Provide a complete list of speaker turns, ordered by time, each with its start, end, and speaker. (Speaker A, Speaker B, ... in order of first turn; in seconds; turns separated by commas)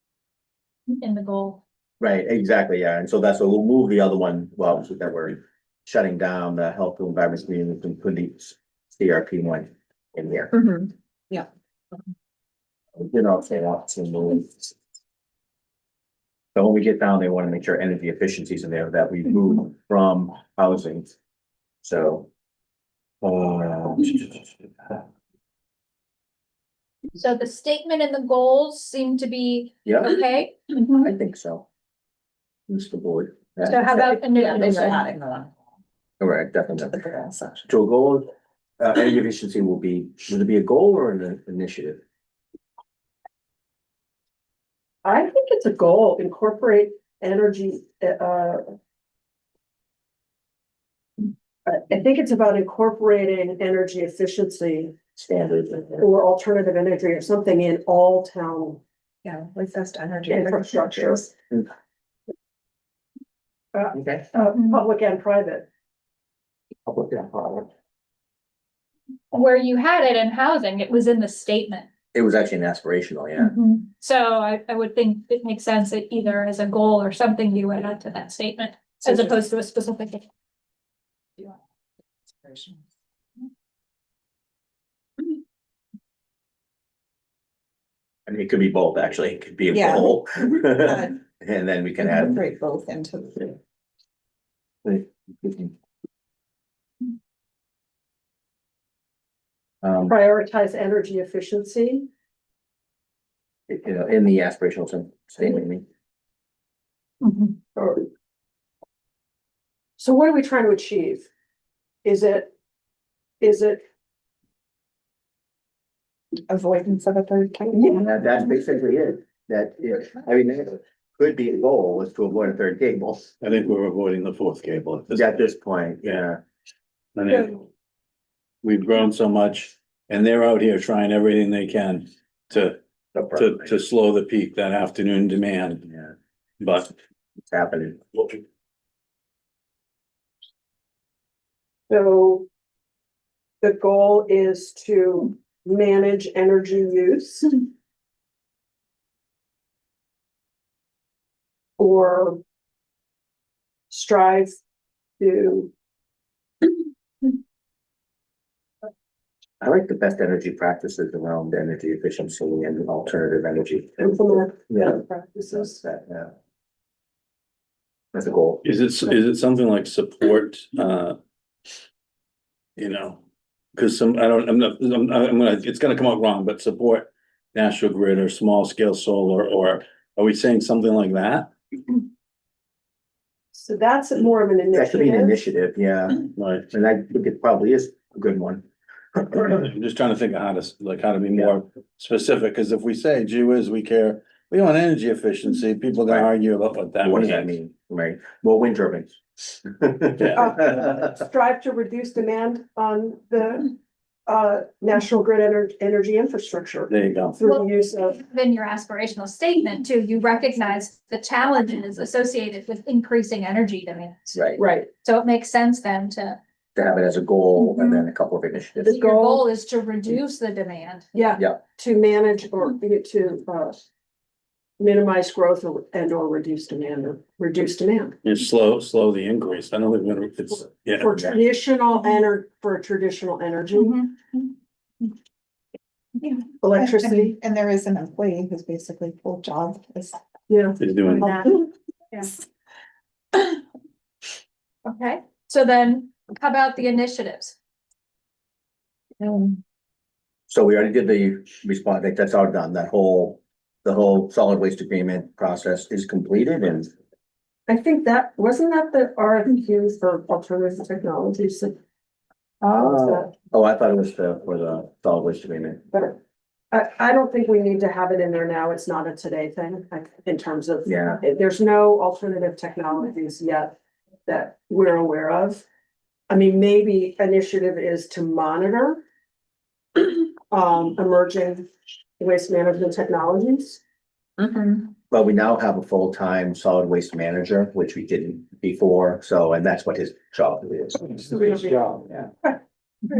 Speaker A: 0.9-1.6, Speaker B: 2.0-10.5, Speaker C: 10.5-11.5, Speaker B: 13.0-14.7, Speaker B: 16.5-21.1, Speaker B: 21.8-22.3, Speaker B: 23.2-25.0, Speaker A: 27.1-30.9, Speaker B: 29.8-30.1, Speaker B: 31.0-31.6, Speaker B: 32.7-33.8, Speaker A: 33.6-35.0, Speaker C: 33.9-35.5, Speaker B: 36.2-37.0, Speaker C: 36.8-37.6, Speaker B: 37.7-42.0, Speaker D: 45.0-48.8, Speaker D: 51.6-54.9, Speaker B: 55.1-56.0, Speaker D: 56.0-58.8, Speaker C: 59.2-61.3, Speaker D: 60.3-61.3, Speaker D: 63.7-65.7, Speaker B: 63.9-64.2, Speaker A: 64.5-64.8, Speaker B: 66.8-67.7, Speaker A: 69.3-71.9, Speaker B: 72.1-73.5, Speaker A: 73.4-80.2, Speaker C: 82.4-82.7, Speaker B: 88.3-92.4, Speaker C: 89.7-90.2, Speaker C: 90.8-91.1, Speaker C: 92.0-93.5, Speaker B: 94.8-95.7, Speaker B: 99.8-100.1, Speaker D: 100.1-102.1, Speaker B: 103.7-105.8, Speaker A: 107.2-107.6, Speaker D: 107.8-108.1, Speaker D: 110.0-111.3, Speaker D: 112.0-112.5, Speaker D: 113.4-113.8, Speaker C: 116.5-118.1, Speaker B: 117.9-123.3, Speaker E: 123.4-125.5, Speaker B: 125.1-126.4, Speaker E: 127.2-127.6, Speaker E: 128.6-132.8, Speaker B: 133.1-133.8, Speaker E: 133.3-135.8, Speaker B: 135.9-136.1, Speaker E: 136.6-136.9, Speaker B: 137.5-138.4, Speaker D: 141.9-142.4, Speaker D: 143.6-147.7, Speaker D: 151.8-152.4, Speaker D: 153.9-154.6, Speaker D: 155.2-155.7, Speaker B: 159.6-164.2, Speaker D: 164.0-165.8, Speaker B: 164.7-166.3, Speaker B: 168.1-168.6, Speaker E: 168.6-171.2, Speaker E: 172.8-173.2, Speaker E: 173.7-181.5, Speaker D: 183.5-185.4, Speaker B: 184.7-189.6, Speaker E: 186.4-186.7, Speaker E: 189.5-197.6, Speaker B: 197.0-201.1, Speaker D: 200.4-203.7, Speaker D: 204.3-208.2, Speaker E: 206.9-207.4, Speaker A: 207.5-216.4, Speaker B: 214.3-214.6, Speaker D: 214.6-214.9, Speaker B: 216.7-218.9, Speaker A: 217.6-218.0, Speaker D: 218.8-219.4, Speaker A: 218.8-221.1, Speaker D: 221.1-223.8, Speaker D: 224.8-228.2, Speaker E: 228.2-231.2, Speaker D: 230.9-233.9, Speaker A: 233.7-234.5, Speaker C: 236.2-240.2, Speaker D: 236.6-237.3, Speaker D: 240.5-241.6, Speaker E: 240.8-241.3, Speaker A: 241.2-241.5, Speaker A: 244.8-247.6, Speaker B: 250.5-256.9, Speaker D: 257.7-261.8, Speaker D: 262.6-263.3, Speaker B: 262.7-265.9, Speaker D: 266.7-273.7, Speaker B: 270.9-271.2, Speaker D: 274.2-275.6, Speaker D: 276.3-279.0, Speaker D: 279.9-281.7, Speaker D: 282.2-283.8, Speaker C: 284.4-284.9, Speaker B: 285.1-291.2, Speaker D: 291.2-292.1